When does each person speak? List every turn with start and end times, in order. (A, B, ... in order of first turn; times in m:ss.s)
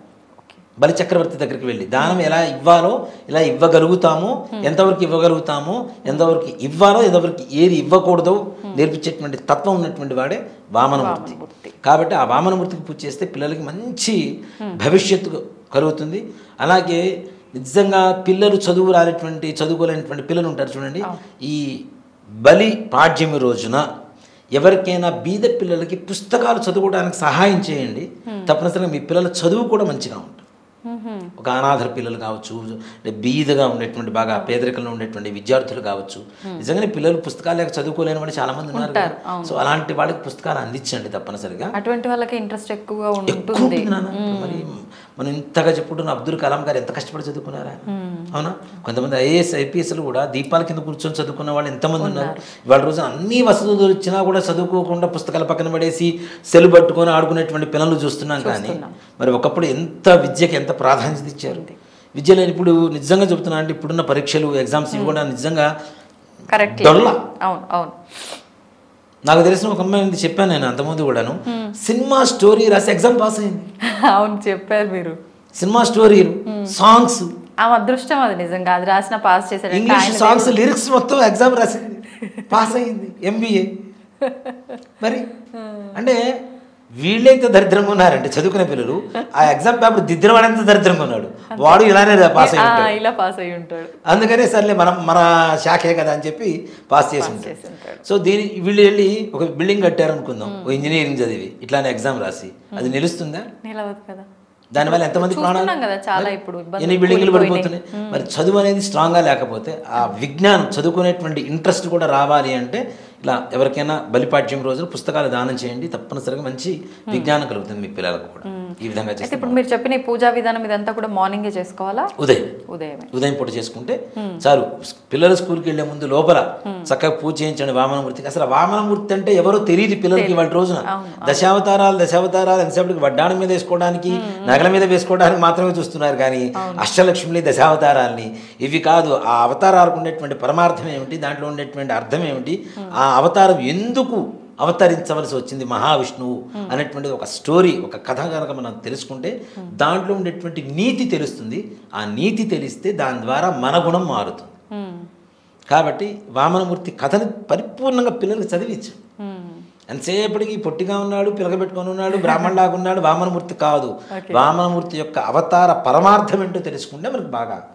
0:00.8-0:14.2 A
0:02.0-0:02.3 B
0:10.9-0:11.8 B
0:14.8-0:17.0 A
0:17.6-0:21.8 A
0:22.4-0:23.8 A
0:24.6-0:30.4 A
0:28.3-0:28.5 B
0:30.9-0:31.3 B
0:31.4-0:41.7 A
0:38.7-0:39.6 B
0:41.7-0:44.6 B
0:43.3-1:01.6 A
0:47.9-0:48.3 B
0:52.0-0:52.4 B
0:58.4-0:59.0 B
1:01.5-1:01.8 B
1:02.2-1:05.7 A
1:04.9-1:05.2 B
1:06.5-1:08.0 B
1:06.6-1:07.2 A
1:09.3-1:13.7 A
1:11.5-1:11.7 B
1:14.1-1:15.2 B
1:15.6-1:17.3 A
1:16.5-1:16.7 B
1:17.6-1:20.6 B
1:19.7-1:23.7 A
1:22.3-1:22.7 B
1:24.2-1:24.8 B
1:25.0-1:25.3 A
1:25.6-1:25.9 B
1:25.9-1:26.2 A
1:27.0-1:32.9 A
1:31.5-1:34.0 B
1:34.0-1:37.5 A
1:37.2-1:38.0 B
1:38.0-1:43.5 A
1:40.4-1:41.0 B
1:43.6-1:44.3 B
1:44.7-1:59.6 A
1:44.8-1:48.2 B
1:58.4-2:02.1 B
2:02.2-2:02.5 A
2:02.7-2:03.1 B
2:03.1-2:34.5 A
2:04.2-2:04.4 B
2:06.6-2:06.9 B
2:10.1-2:11.4 B
2:14.1-2:14.7 B
2:16.6-2:16.8 B
2:34.7-2:35.1 B
2:35.7-2:39.0 A
2:39.2-2:39.6 B
2:39.9-2:47.6 A
2:42.1-2:42.5 B
2:44.1-2:44.5 B